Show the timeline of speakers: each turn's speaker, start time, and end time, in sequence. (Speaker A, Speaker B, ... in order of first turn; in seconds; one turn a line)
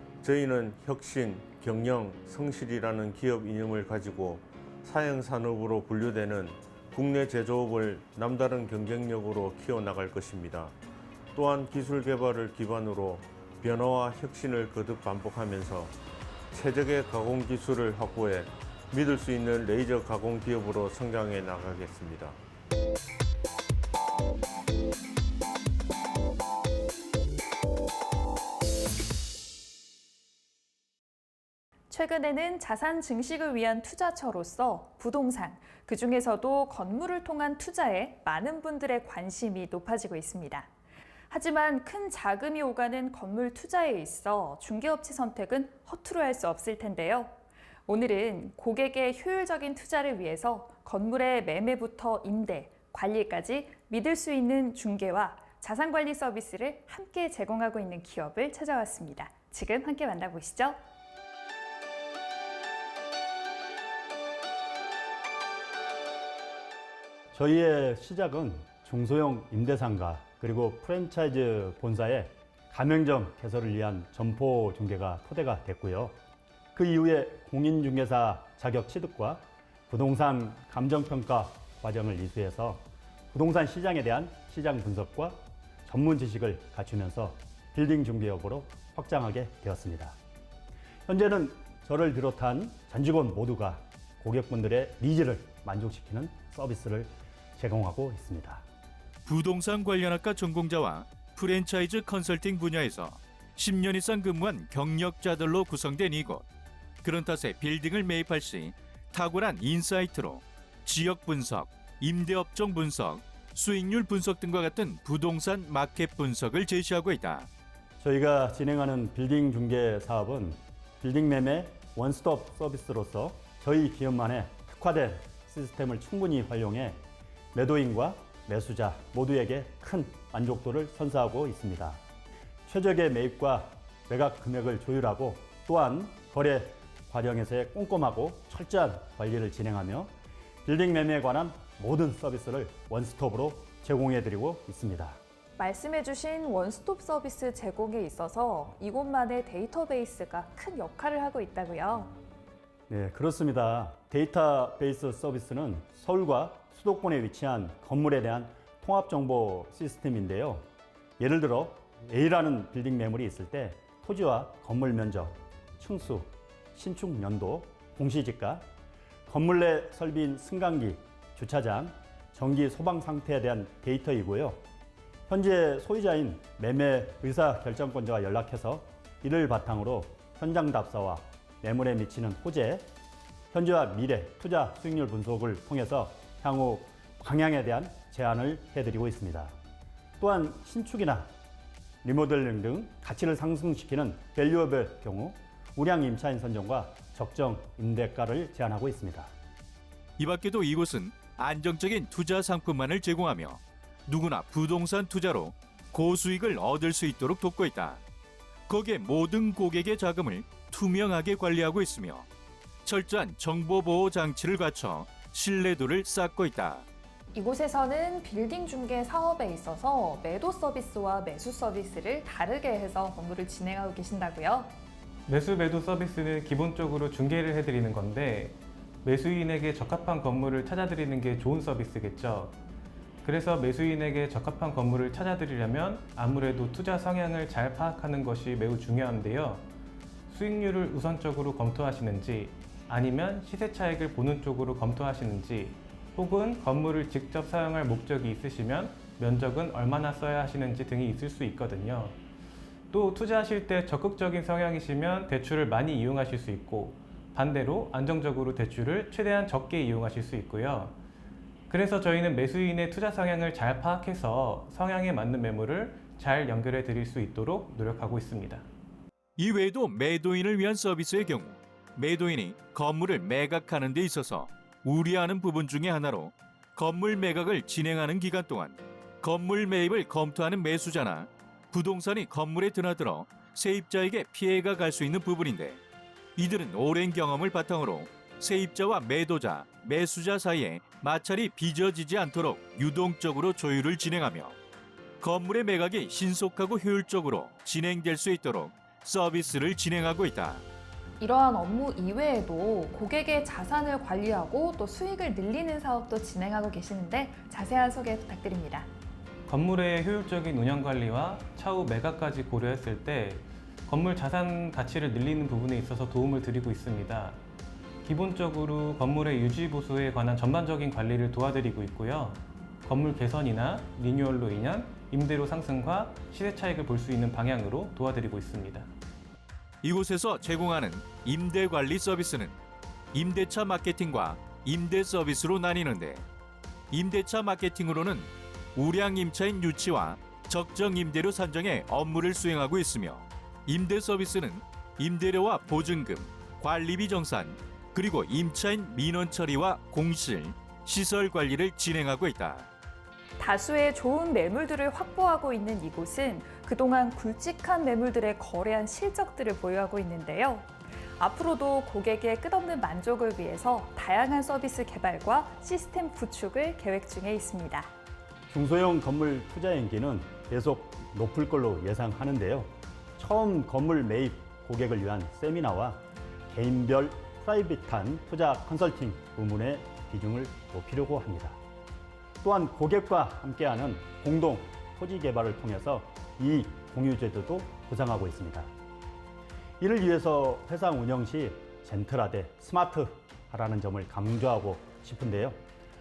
Speaker A: 0.2-10.7
Speaker A: 11.3-15.9
Speaker A: 16.5-22.4
Speaker B: 31.9-40.7
Speaker B: 41.3-47.3
Speaker B: 47.9-60.8
Speaker C: 67.3-76.2
Speaker C: 76.7-90.2
Speaker C: 91.1-98.6
Speaker D: 99.2-106.4
Speaker D: 107.0-117.5
Speaker C: 118.0-127.0
Speaker C: 127.5-132.0
Speaker C: 132.7-140.1
Speaker C: 140.6-145.2
Speaker B: 145.6-152.1
Speaker C: 152.9-160.7
Speaker C: 161.2-168.7
Speaker C: 169.3-174.6
Speaker C: 175.3-182.9
Speaker C: 183.5-189.5
Speaker C: 190.2-191.3
Speaker C: 192.0-199.3
Speaker D: 200.2-208.0
Speaker D: 208.7-212.3
Speaker D: 212.8-216.8
Speaker B: 217.3-224.7
Speaker E: 225.3-232.6
Speaker E: 233.2-239.6
Speaker E: 240.3-252.2
Speaker E: 252.9-261.0
Speaker E: 261.7-268.6
Speaker D: 269.4-285.8
Speaker D: 286.4-294.6
Speaker D: 295.2-300.6
Speaker B: 301.2-308.9
Speaker E: 309.5-317.4
Speaker E: 318.0-328.9
Speaker D: 329.8-332.6
Speaker D: 333.1-336.2
Speaker D: 336.9-352.7
Speaker B: 353.4-367.9
Speaker C: 368.5-381.6
Speaker C: 382.4-388.7
Speaker C: 389.8-395.6